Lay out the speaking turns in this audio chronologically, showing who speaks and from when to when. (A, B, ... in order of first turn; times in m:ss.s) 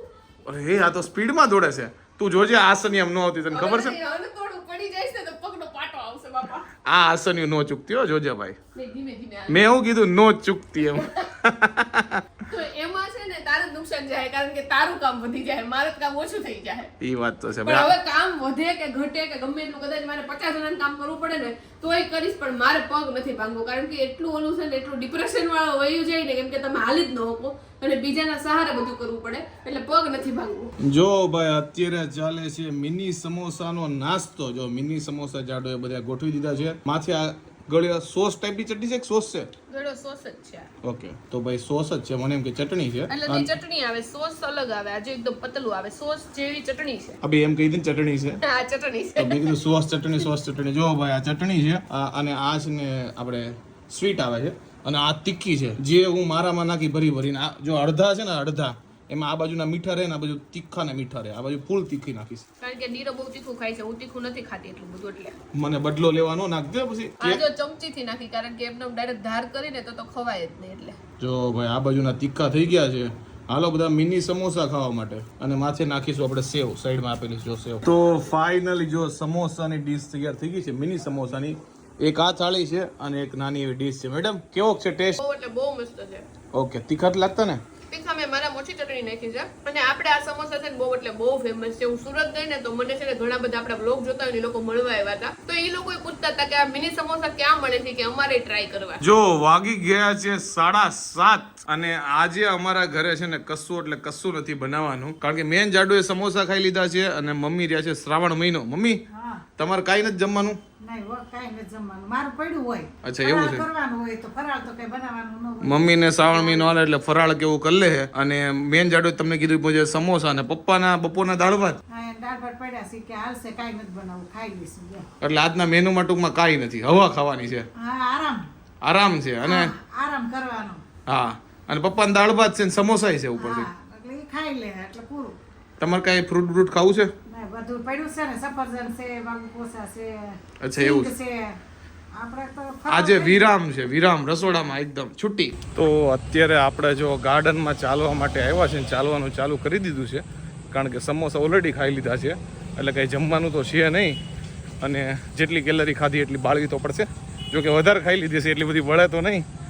0:00.4-0:04.0 A
0:03.5-0:06.7 B
0:06.8-0:08.6 A
0:08.7-0:09.8 B
0:09.5-0:12.2 A
0:10.9-0:11.3 B
0:12.5-0:16.9 B
0:17.0-0:17.9 A
0:17.6-0:30.7 B
0:30.8-0:39.5 A
0:39.7-0:40.7 B
0:40.8-0:43.5 A
0:43.1-0:47.2 B
0:47.2-0:48.4 A
0:48.4-0:49.6 B
0:49.2-1:02.4 A
1:02.6-1:05.3 B
1:05.5-1:07.4 A
1:07.2-1:11.0 B
1:11.2-1:25.2 A
1:25.2-1:26.2 B
1:26.5-1:27.6 A
1:27.9-1:39.0 B
1:39.0-1:49.0 A
1:49.1-1:49.4 C
1:49.6-1:50.6 A
1:50.8-1:56.7 C
1:53.0-1:53.6 A
1:55.6-2:01.8 A
2:01.9-2:05.1 C
2:05.2-2:07.6 A
2:07.7-2:08.5 C
2:08.8-2:09.7 A
2:09.4-2:10.8 C
2:11.1-2:13.7 A
2:13.4-2:15.3 C
2:15.8-2:17.1 A
2:17.3-2:21.6 C
2:20.6-2:21.1 A
2:22.1-2:23.5 C
2:22.9-2:34.2 A
2:34.8-2:39.4 A